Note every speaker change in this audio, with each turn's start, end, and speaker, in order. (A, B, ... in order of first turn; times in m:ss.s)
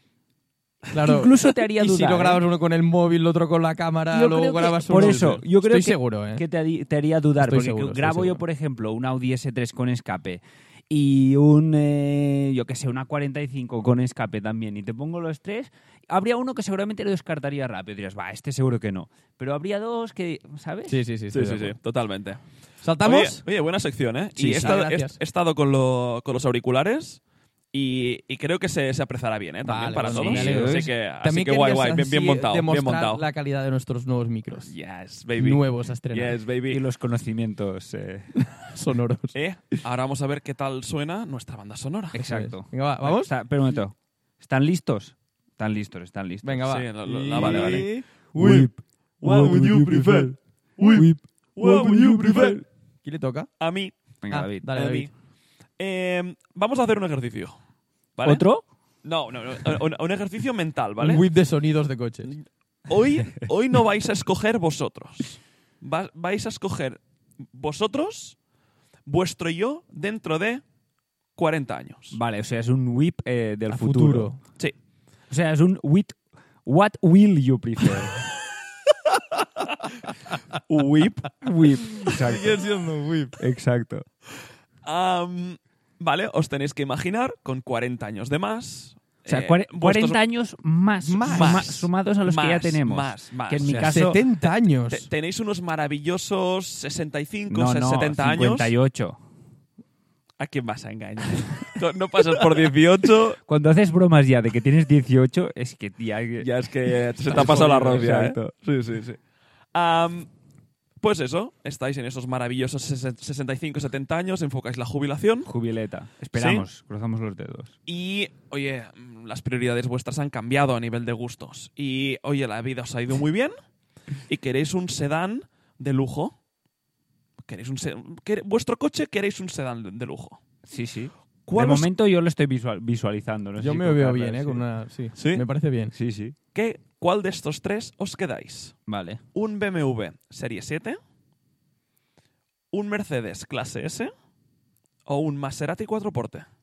0:00.9-0:02.4 A
0:00.9-0:06.4 B
0:04.1-0:21.0 A
0:05.0-0:05.4 C
0:07.4-0:08.4 B
0:20.9-0:21.8 B
0:21.3-0:22.4 C
0:22.8-0:23.4 B
0:23.0-0:27.2 C
0:24.4-0:25.2 B
0:27.7-0:33.2 C
0:29.6-0:34.7 B
0:30.1-0:30.9 A
0:34.6-0:36.8 C
0:35.4-0:36.4 B
0:36.7-0:38.4 A
0:38.4-0:39.3 B
0:39.3-0:42.2 C
0:42.1-0:52.6 A
0:42.1-0:43.3 B
0:46.4-0:48.1 B
0:46.7-0:52.6 C
0:50.8-0:53.5 B
0:53.6-0:54.0 C
0:54.2-0:54.7 A
0:54.3-0:55.1 B
0:54.7-0:55.1 C
0:55.8-0:57.6 C
0:58.2-0:58.4 C
0:58.2-0:58.6 A
0:59.0-1:01.2 C
1:01.0-1:02.3 B
1:02.3-1:07.0 C
1:07.5-1:08.4 C
1:09.0-1:10.6 C
1:11.3-1:12.2 C
1:12.1-1:14.3 A
1:13.7-1:14.4 B
1:15.3-1:18.3 A
1:20.7-1:21.3 C
1:21.4-1:22.6 A
1:22.0-1:23.4 B
1:23.4-1:24.0 A
1:24.8-1:30.2 C
1:29.3-1:34.2 A
1:31.0-1:31.7 B
1:31.3-1:34.0 C
1:33.6-1:35.1 B
1:34.9-1:38.7 C
1:37.5-1:39.2 A
1:40.4-1:43.4 C
1:43.4-1:48.5 A
1:46.4-1:49.2 C
1:47.3-1:47.7 B
1:49.7-1:50.3 C
1:51.0-1:55.5 C
1:55.5-1:57.7 A
1:56.3-1:56.6 C
1:57.9-2:03.5 C
2:04.3-2:06.3 C
2:07.5-2:10.4 C
2:10.7-2:14.6 A
2:11.5-2:11.9 C
2:13.6-2:15.9 B
2:15.2-2:15.4 C
2:15.9-2:16.3 A
2:16.5-2:18.7 C
2:18.9-2:19.2 A
2:19.3-2:21.0 C
2:22.7-2:24.1 C
2:25.0-2:26.4 C